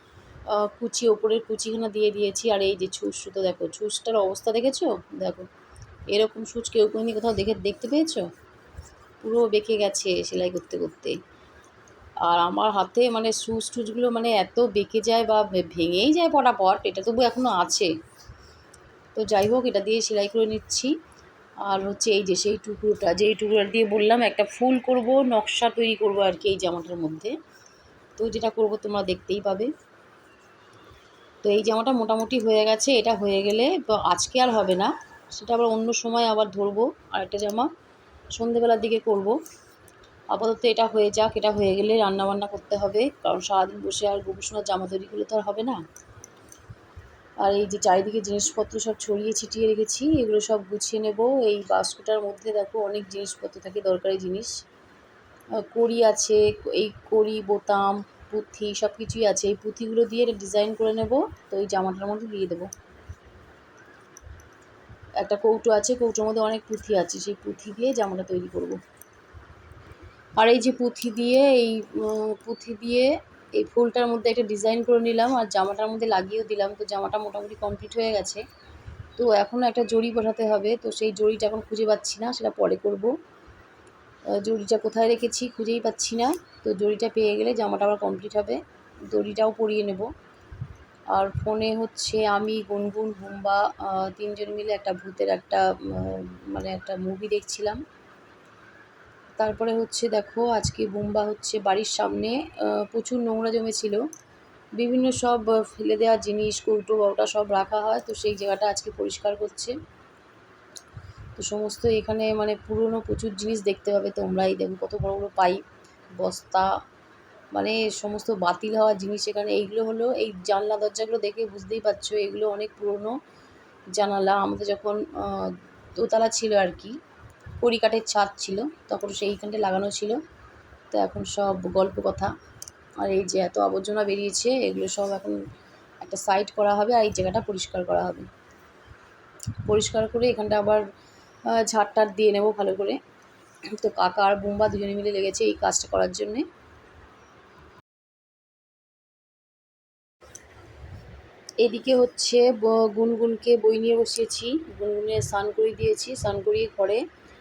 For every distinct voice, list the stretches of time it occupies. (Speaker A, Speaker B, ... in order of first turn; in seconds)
Speaker A: 0.5-5.5, 6.1-8.3, 9.2-11.2, 12.2-17.9, 19.1-20.9, 21.6-27.3, 28.2-29.7, 31.4-37.7, 38.3-39.4, 40.3-45.8, 47.4-54.6, 55.6-62.7, 65.2-68.8, 70.4-78.4, 79.2-83.1, 84.4-90.1, 91.1-97.8, 99.4-104.0, 104.8-109.8, 111.4-115.6, 116.2-116.7, 117.5-123.2, 123.9-127.0, 127.6-130.2, 130.9-132.3, 133.0-135.4, 136.0-138.3, 139.6-140.8, 141.5-143.0, 143.8-146.4, 151.6-157.0